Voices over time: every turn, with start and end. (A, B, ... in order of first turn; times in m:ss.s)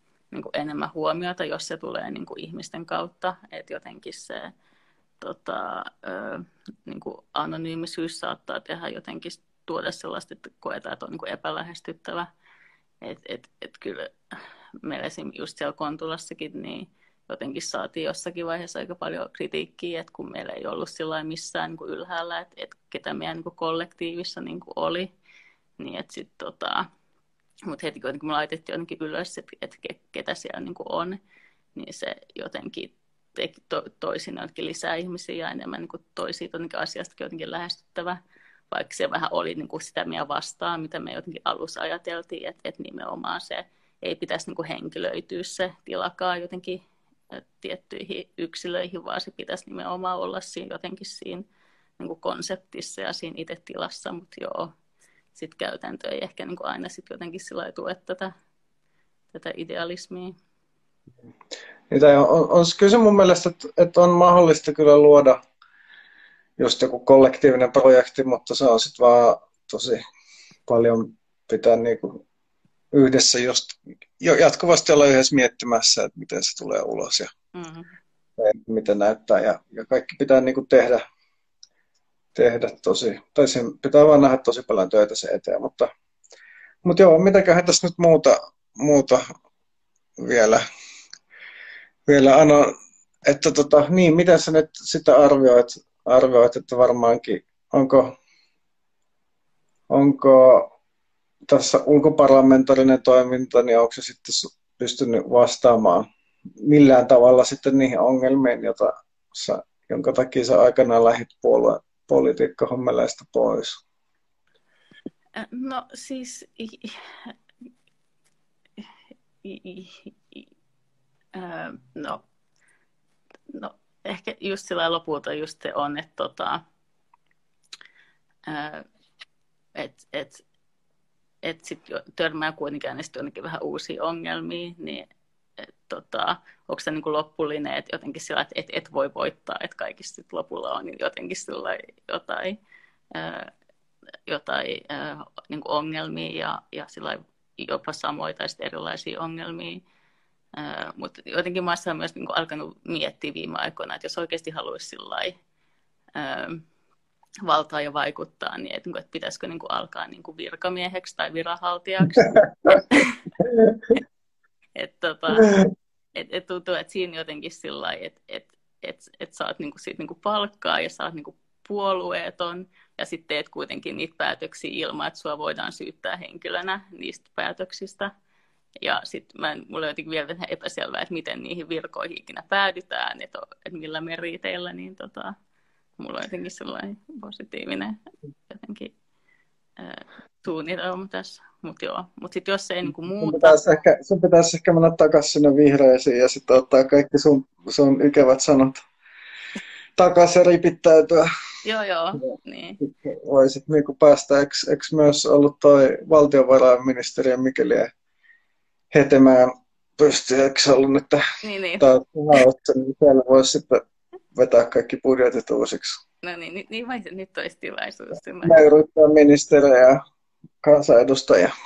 0:00.3-0:04.5 A
0:05.2-0:12.3 A
0:13.0-0:25.1 A
0:25.8-0:26.8 A
0:27.7-0:31.2 A
0:31.8-0:38.2 A
0:38.7-0:51.4 A
0:52.0-0:54.7 A
0:55.3-0:58.3 A
0:59.3-1:00.4 A
1:01.9-1:05.4 B
1:06.6-1:10.0 B
1:10.7-1:12.2 B
1:12.9-1:17.3 B
1:17.5-1:17.9 A
1:18.4-1:21.0 B
1:22.4-1:25.9 B
1:26.8-1:29.2 B
1:30.2-1:30.6 B
1:32.1-1:32.7 B
1:33.3-1:38.1 B
1:39.9-1:40.7 B
1:41.5-1:46.1 B
1:46.6-1:53.8 B
1:55.4-1:57.3 A
1:59.4-2:00.5 A
2:01.3-2:02.2 A
2:03.5-2:06.6 A
2:08.4-2:08.9 A
2:09.8-2:10.4 A
2:11.4-2:15.1 A
2:15.6-2:22.6 A
2:23.1-2:23.5 A
2:24.3-2:29.8 A
2:30.5-2:35.4 A
2:36.1-2:36.6 A
2:37.4-2:43.2 A
2:44.8-2:45.5 A
2:45.4-2:45.6 B
2:46.1-2:58.1 A
2:58.8-3:05.3 A
3:06.0-3:08.0 A
3:08.5-3:08.9 A
3:09.8-3:13.8 A
3:13.2-3:18.8 B
3:20.0-3:21.3 B
3:21.6-3:22.8 A
3:22.8-3:27.9 B
3:28.9-3:31.2 B
3:31.4-3:32.4 A
3:31.8-3:36.0 B
3:36.2-3:38.6 A
3:38.4-3:40.0 B
3:40.6-3:41.5 B